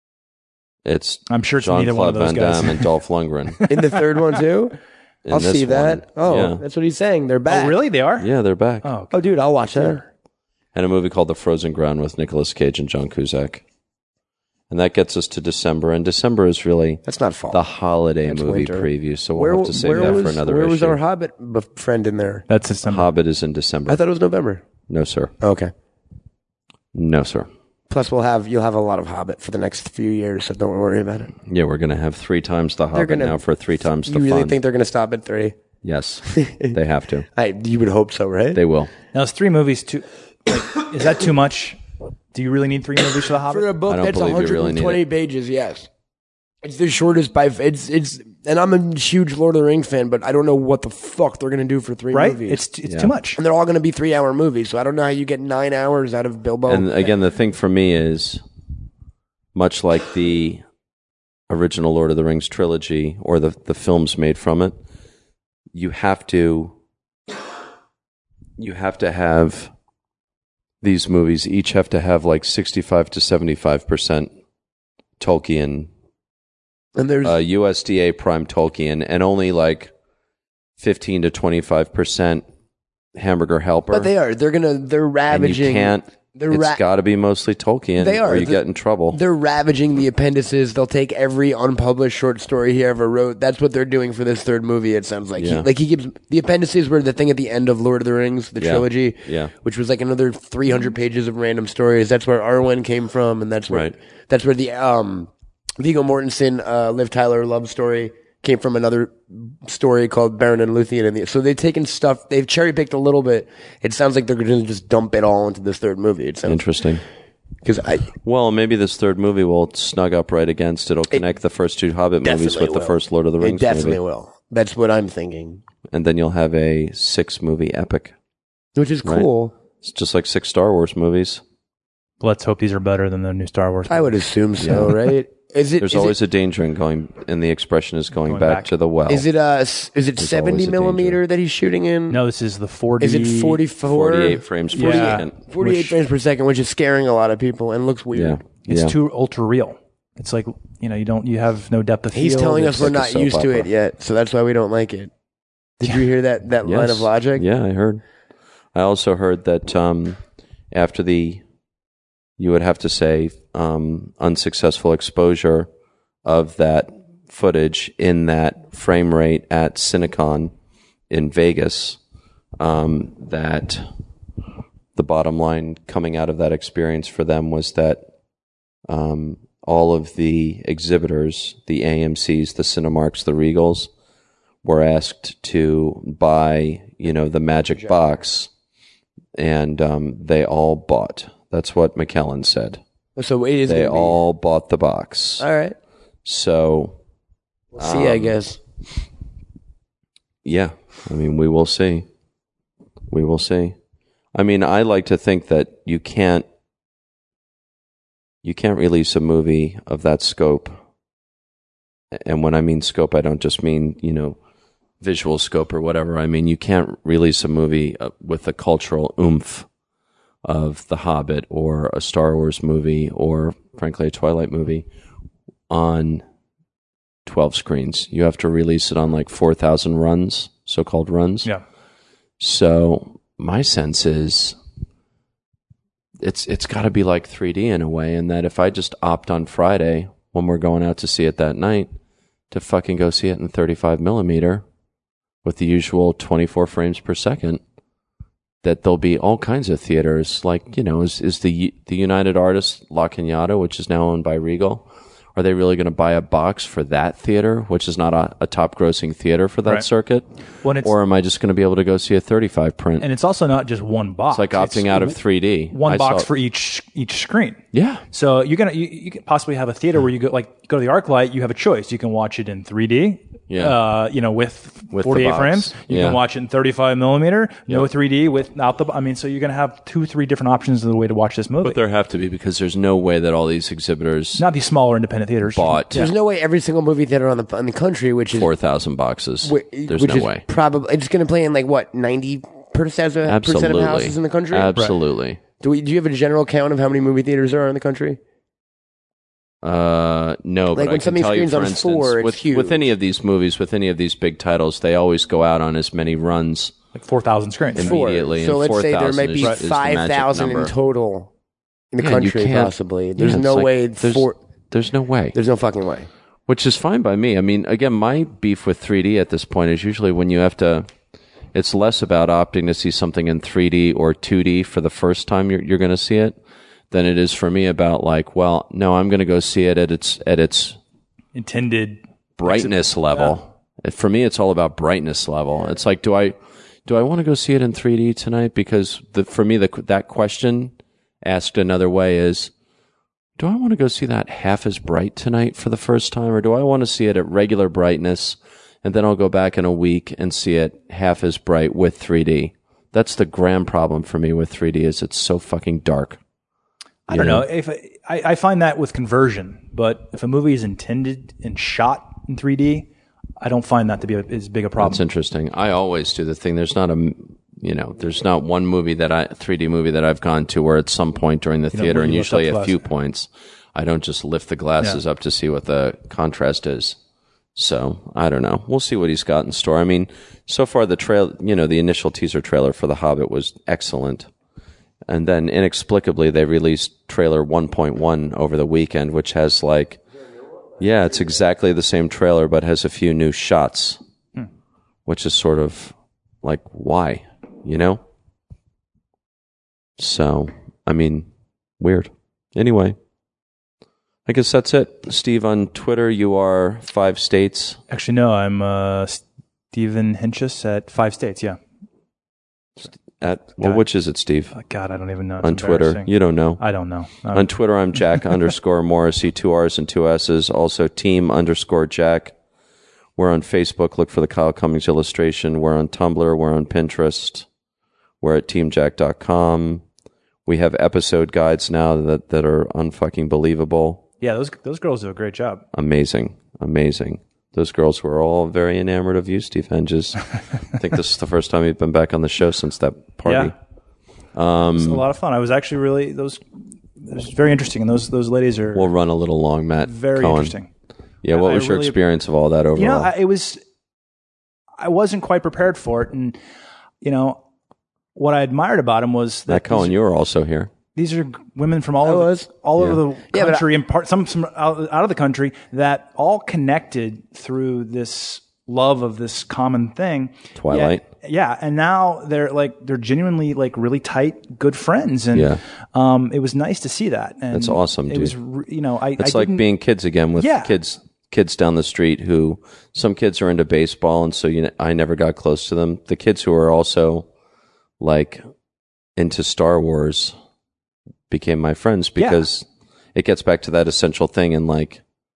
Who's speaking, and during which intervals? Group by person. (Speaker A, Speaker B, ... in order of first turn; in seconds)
Speaker A: 0.8-3.7, 5.2-6.6, 8.2-8.9, 10.7-13.6, 14.7-21.0, 22.9-24.0, 24.9-25.3, 26.9-27.5, 31.5-34.6, 35.8-37.3, 38.5-38.9, 43.9-45.0, 52.9-53.1, 56.7-58.4, 59.5-60.6, 61.5-64.8, 65.7-66.7, 68.6-69.7, 70.8-74.3, 75.2-75.9, 77.2-79.9, 80.8-82.4, 83.2-84.1, 85.3-89.2, 95.4-95.7, 98.6-99.5, 103.7-104.0, 116.5-117.0, 118.2-124.0, 125.9-128.1, 129.8-131.4, 134.6-135.0, 135.8-139.3, 140.2-141.2, 143.8-145.4, 148.1-148.9, 152.7-153.7, 156.6-158.0, 158.8-160.2, 160.7-161.4, 162.4-165.7, 166.2-170.5, 171.1-172.0, 172.6-173.9, 174.9-178.0, 178.9-183.9, 184.6-188.5, 189.3-192.8, 193.7-195.5, 196.2-197.0, 197.8-198.4, 200.4-202.1, 203.1-203.8, 204.3-206.4, 208.4-210.8, 212.2-214.4, 215.0-219.7, 220.4-224.9, 225.7-226.2, 227.3-231.5, 232.4-234.6, 236.2-241.9, 242.5-244.6, 245.4-247.6, 248.6-260.2, 260.8-263.1, 264.3-266.3, 267.7-268.0, 273.5-273.8, 274.9-276.2, 281.6-284.4, 285.6-286.1, 288.3-290.4, 293.3-295.4, 299.6-306.7, 307.8-310.7, 312.0-315.4, 316.5-320.9, 321.5-326.4, 326.9-330.8, 332.4-336.4, 336.9-342.5, 343.4-356.2, 357.1-357.5, 364.8-377.0, 377.6-384.3, 385.1-390.0, 390.8-394.0, 395.1-398.0, 400.0-401.3, 401.8-403.0, 404.3-407.8, 412.8-414.6, 415.4-416.6, 417.3-422.3, 423.2-427.5, 428.2-429.8, 430.5-434.0, 435.7-443.5, 444.3-445.1, 448.8-450.6, 451.2-453.1, 459.5-460.7, 470.6-471.0, 475.3-475.6, 477.5-478.4, 479.2-487.3, 488.0-488.4, 489.2-490.3, 491.3-495.0
Speaker B: 1.3-2.9, 7.5-8.3, 8.8-9.2, 19.8-20.2, 22.5-23.1, 39.1-41.8, 42.3-43.7, 52.1-53.4, 132.2-134.1, 138.2-138.7, 142.1-143.6, 144.8-145.9, 148.7-152.9, 260.6-260.9, 263.0-265.2, 265.7-267.6, 268.1-281.8, 284.4-286.1, 307.0-308.0, 331.4-333.3, 357.1-362.9, 363.4-365.0, 371.7-372.7, 407.9-411.6, 414.5-417.5, 434.2-435.6, 443.3-443.5, 444.8-446.4, 447.0-448.9, 449.8-450.7, 451.3-452.0, 452.8-453.6, 454.8-456.4, 457.0-457.4, 458.1-459.9, 460.9-479.6, 480.4-480.7, 492.2-492.5
Speaker C: 3.7-4.8, 5.3-7.8, 9.1-10.1, 17.1-17.6, 18.3-22.5, 23.9-24.6, 25.4-25.7, 27.9-31.3, 32.9-33.4, 34.1-35.5, 36.3-36.8, 37.4-38.6, 43.5-45.9, 46.6-52.6, 53.4-56.9, 77.0-77.4, 83.9-86.8, 88.0-88.6, 89.1-116.6, 117.7-118.1, 122.2-125.6, 128.8-129.5, 133.9-136.2, 139.1-142.2, 143.0-148.4, 152.1-155.1, 155.8-157.4, 193.2-194.2, 195.4-195.8, 197.8-198.6, 285.9-288.5, 289.4-294.7, 295.6-298.2, 300.7-302.8, 307.8-311.3, 311.9-314.4, 315.3-316.1, 462.0-462.5, 463.3-463.6